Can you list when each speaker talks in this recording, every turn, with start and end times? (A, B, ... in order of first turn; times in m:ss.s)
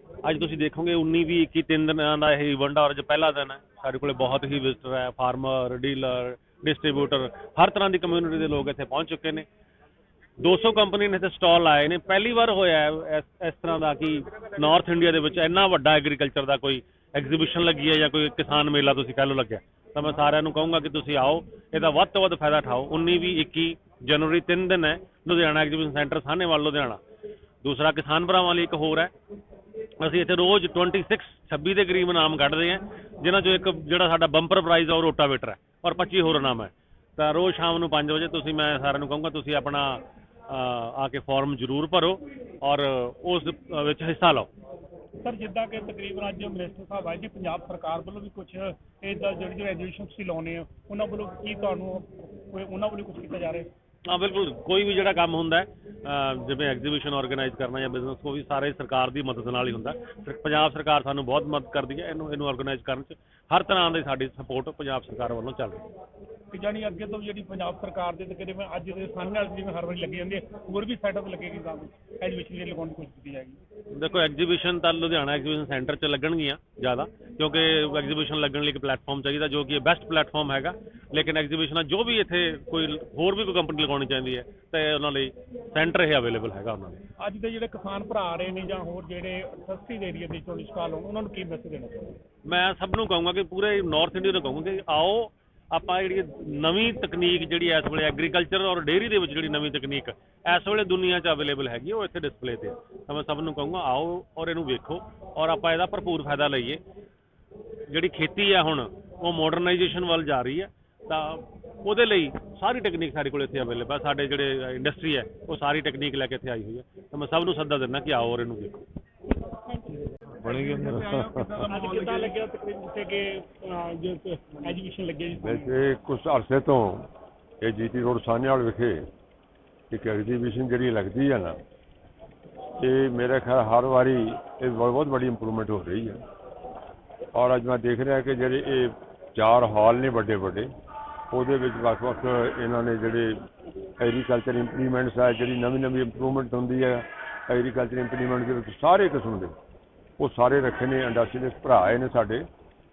0:00.2-0:09.5 A
0:10.4-0:27.0 A
0:27.6-0:29.1 A
0:30.0-0:44.5 A
0:45.2-0:53.7 B
0:54.0-1:05.9 A
1:06.5-1:13.6 B
1:13.9-1:27.0 A
1:27.2-1:32.2 B
1:32.4-1:46.8 A
1:47.9-1:58.9 A
2:00.4-2:05.8 B
2:00.6-2:01.4 C
2:05.4-2:07.1 C
2:07.6-2:09.0 C
2:09.9-2:11.6 C
2:12.8-2:16.2 C
2:17.3-2:20.7 C
2:21.3-2:23.4 C
2:24.0-2:29.5 C
2:30.2-2:32.5 C